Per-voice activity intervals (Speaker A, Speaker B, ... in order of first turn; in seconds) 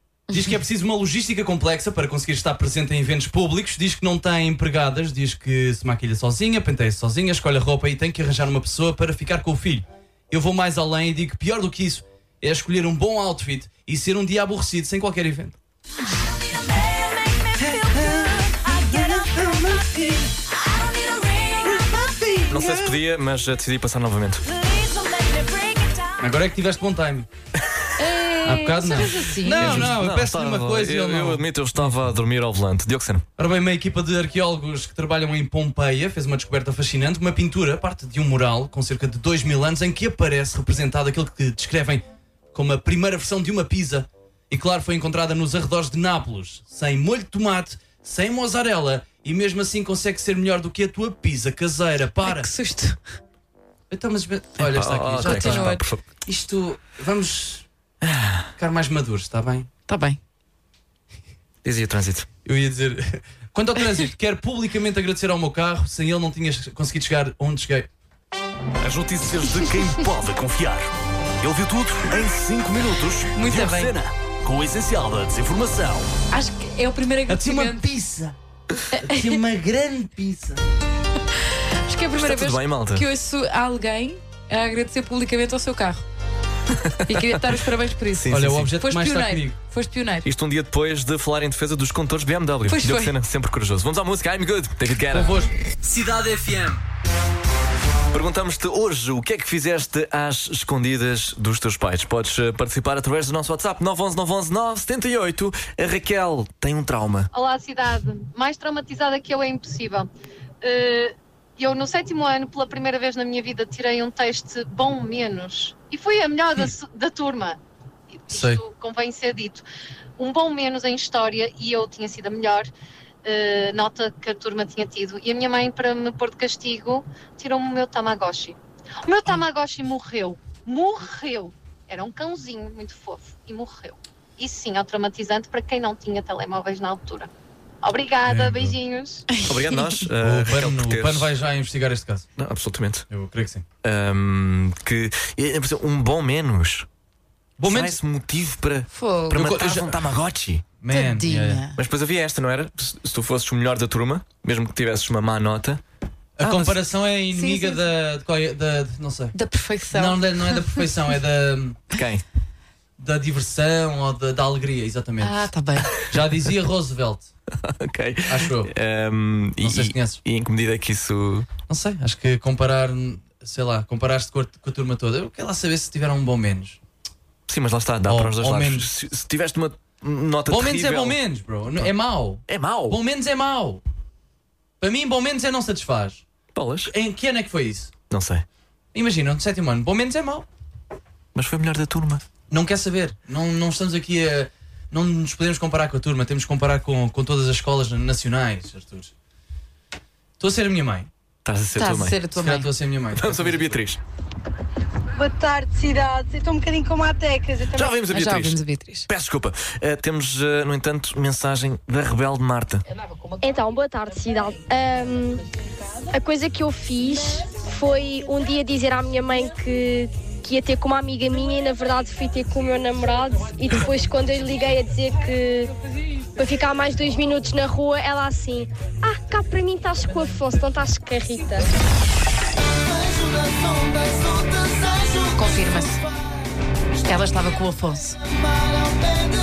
Speaker A: 0.3-15.6, 17.6-20.3, 21.6-23.0, 26.2-27.3, 28.4-32.0, 33.4-52.5, 53.9-55.7, 56.2-57.6, 58.6-59.7, 62.5-67.9, 77.3-78.4, 79.0-80.7, 88.3-89.6, 95.1-95.5, 118.3-118.6, 138.2-138.8, 140.2-142.3, 143.1-143.6, 147.6-148.0, 149.4-150.0, 150.8-151.7, 156.4-159.3, 159.9-161.9, 163.0-165.4, 166.1-167.3, 168.3-168.7, 169.6-170.2, 171.7-176.8, 178.1-178.9, 180.5-183.8, 184.8-186.2, 186.9-187.9, 188.9-190.5, 192.5-199.1, 200.4-201.1, 202.3-203.8
Speaker B: 22.5-24.5, 29.6-33.3, 54.6-56.0, 58.0-58.5, 61.6-62.3, 82.2-83.0, 86.8-87.2, 88.2-88.7, 90.2-95.4, 98.1-107.3, 139.4-141.3, 142.4-143.1, 143.8-146.9, 147.6-150.7, 151.8-155.8, 161.9-162.2, 167.6-171.5, 177.5-181.2, 182.5-183.0, 186.5-186.9, 188.1-188.4, 191.3-192.2, 201.4-202.2, 203.2-204.0, 207.8-212.8
Speaker C: 28.0-30.0, 52.2-53.0, 55.2-55.9, 59.9-60.2, 73.3-74.0, 76.3-77.9, 78.9-79.4, 81.8-86.0, 87.1-90.3, 92.7-93.1, 139.3-139.8, 148.9-149.6, 150.9-151.8, 156.5-156.8, 157.3-157.9, 159.3-160.8, 165.2-166.0, 201.8-202.7, 208.1-209.1, 235.2-236.0, 237.0-238.2
Speaker D: 68.8-70.9, 71.4-76.1, 95.8-96.8
Speaker E: 107.3-110.1, 110.6-117.6, 118.1-119.6, 120.2-122.7, 123.2-137.3, 137.8-139.3
Speaker F: 205.2-208.0
Speaker G: 213.4-215.4, 216.1-225.7, 226.4-231.7